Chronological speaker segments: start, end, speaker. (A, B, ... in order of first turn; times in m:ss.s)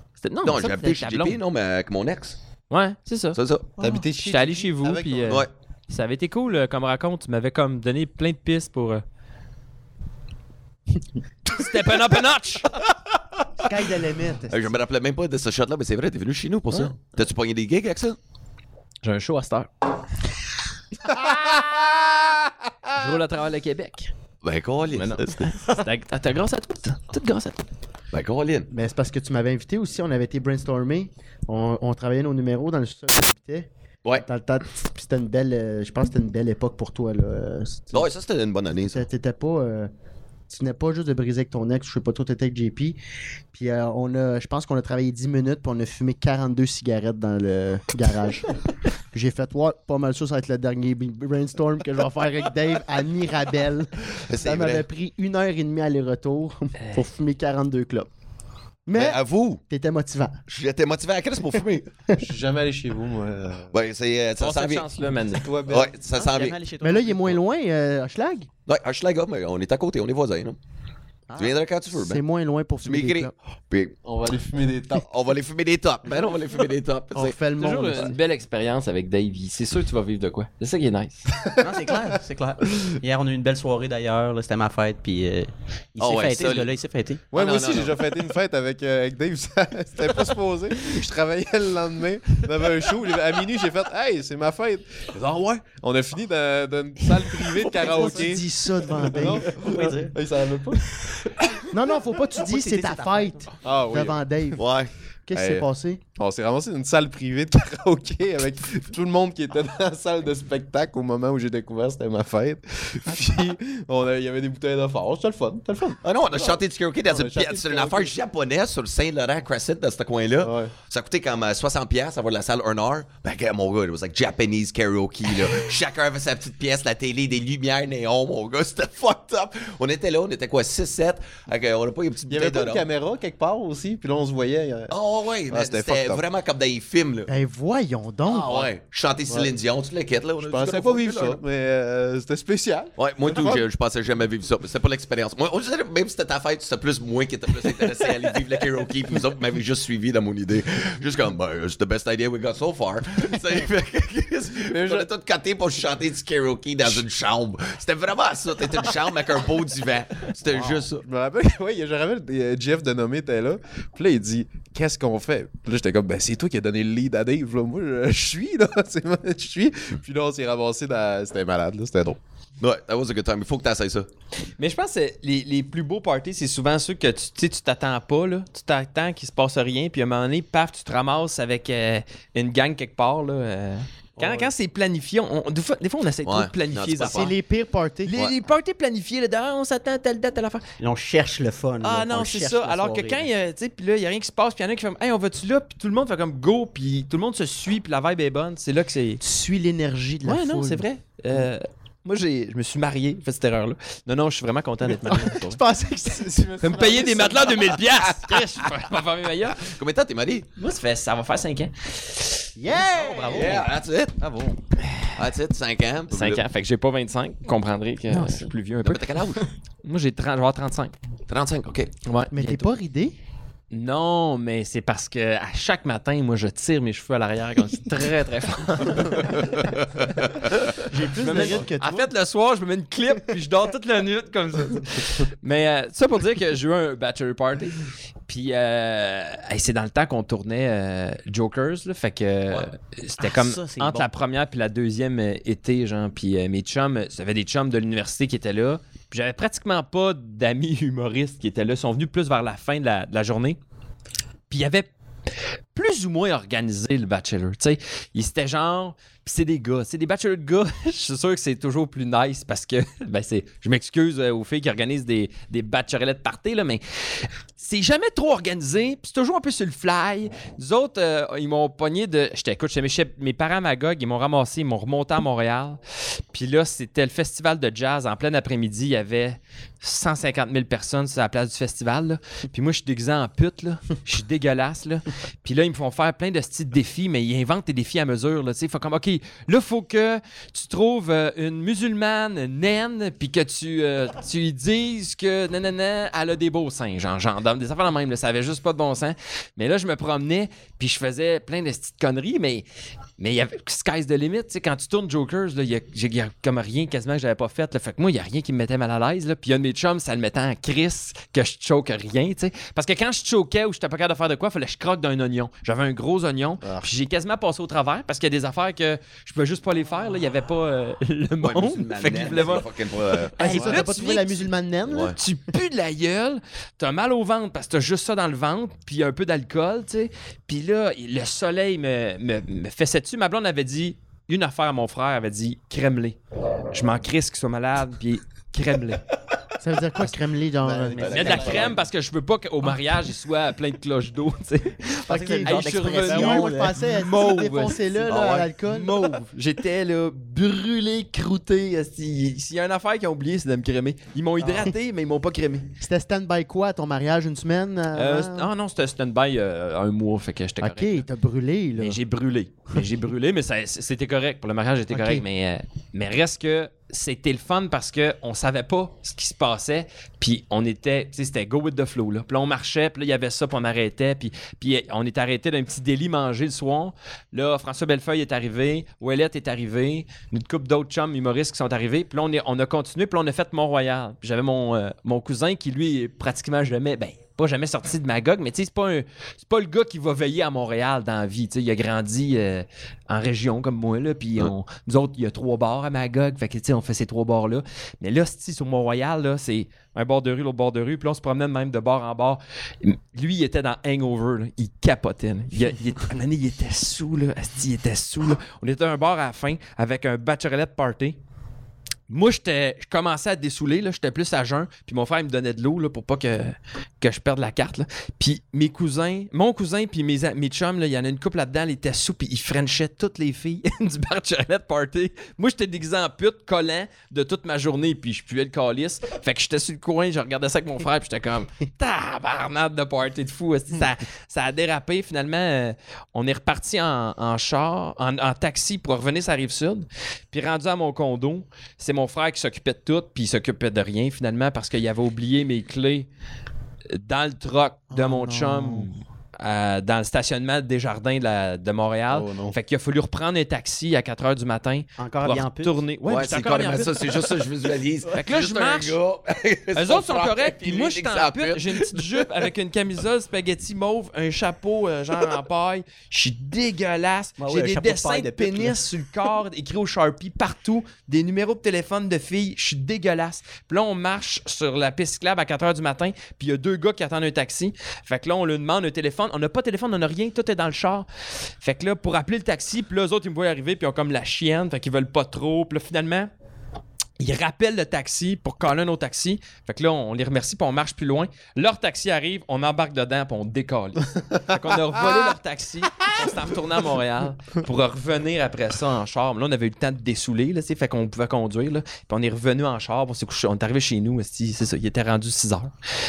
0:00.2-0:01.4 A
0:00.4-0:02.4 B
0:02.7-0:09.0 A
0:03.3-0:03.8 B
0:03.8-0:05.4 C
0:11.5-0:12.7 A
0:13.6-0:14.8 D
0:14.5-0:18.2 B
0:19.0-0:19.7 A
0:21.2-0:22.3 C
0:22.9-0:24.1 A
0:24.4-0:25.5 B
0:24.9-0:27.6 A
0:28.1-0:28.7 B
0:28.7-0:38.1 D
0:37.9-0:39.0 B
0:38.7-0:39.9 D
0:40.5-0:43.0 D
0:43.5-0:48.6 D
0:49.1-0:58.1 D
0:54.2-0:54.8 B
0:56.8-0:57.1 A
0:58.8-1:00.4 D
0:58.9-0:59.6 B
1:00.5-1:02.0 B
1:02.2-1:03.7 C
1:03.7-1:04.9 B
1:04.4-1:05.5 A
1:05.3-1:05.9 C
1:05.6-1:06.6 B
1:06.1-1:07.4 E
1:06.8-1:08.5 D
1:08.7-1:10.6 B
1:11.3-1:13.3 D
1:11.3-1:12.2 B
1:12.8-1:14.0 B
1:14.0-1:15.0 C
1:15.0-1:17.4 B
1:17.1-1:18.2 D
1:17.6-1:21.3 A
1:21.3-1:21.7 C
1:21.6-1:27.2 E
1:26.0-1:26.8 B
1:27.3-1:38.4 C
1:27.3-1:28.2 B
1:37.8-1:39.5 D
1:39.1-1:41.4 C
1:39.2-1:40.2 E
1:41.7-1:44.6 D
1:42.4-1:43.5 E
1:43.6-1:44.2 C
1:44.6-1:44.9 B
1:45.3-1:46.0 D
1:45.3-1:58.1 C
1:56.0-2:12.9 B
2:00.4-2:00.7 C
2:12.3-2:14.9 C
2:14.9-2:17.3 B
2:15.5-2:16.2 C
2:17.3-2:18.5 D
2:18.2-2:21.4 B
2:19.3-2:19.5 C
2:20.4-2:23.6 C
2:23.0-2:41.0 B
2:34.6-2:35.1 C
2:40.5-2:52.2 C
2:52.6-2:54.1 B
2:54.6-3:07.3 A
3:06.2-3:07.3 B
3:07.0-3:08.2 D
3:08.0-3:10.6 A
3:10.8-3:13.3 E
3:11.8-3:19.2 A
3:19.2-3:20.8 D
3:20.2-3:25.6 A
3:25.0-3:26.5 D
3:26.1-3:27.8 C
3:26.6-3:29.7 A
3:27.9-3:28.6 B
3:29.6-3:30.5 B
3:30.6-3:33.6 A
3:32.6-3:33.7 D
3:33.2-3:34.3 B
3:34.8-3:35.3 A
3:35.2-3:36.4 B
3:36.1-3:39.3 A
3:38.1-3:38.5 D
3:38.8-3:39.5 B
3:39.8-3:40.9 A
3:41.3-3:41.9 B
3:42.0-3:42.7 A
3:42.3-3:43.2 D
3:43.7-4:13.6 A
3:49.3-3:50.1 B
3:50.8-3:52.1 D
4:03.2-4:04.1 E
4:14.5-4:14.9 A
4:15.7-4:35.8 A
4:36.3-5:02.6 A
5:03.2-5:36.2 A
5:16.6-5:16.9 C
5:21.4-5:23.3 B
5:23.4-5:25.2 D
5:23.5-5:23.8 C
5:24.9-5:25.2 B
5:36.7-5:39.0 A
5:39.6-5:41.6 D
5:40.6-5:41.7 C
5:41.0-5:41.8 B
5:41.1-5:55.7 A
5:45.0-5:46.7 E
5:45.1-5:49.1 D
5:54.4-5:54.7 D
5:55.8-5:58.5 D
5:57.9-6:01.0 A
6:00.6-6:02.0 D
6:01.8-6:51.2 A
6:04.9-6:05.2 D
6:52.1-7:26.1 A
7:26.9-7:37.4 A
7:27.9-7:28.9 D
7:32.1-7:32.6 C
7:35.0-7:35.8 E
7:36.0-7:42.5 B
7:38.1-7:39.0 A
7:39.7-8:01.0 A
7:47.4-7:48.8 E
8:01.6-8:06.3 A
8:07.2-8:25.7 A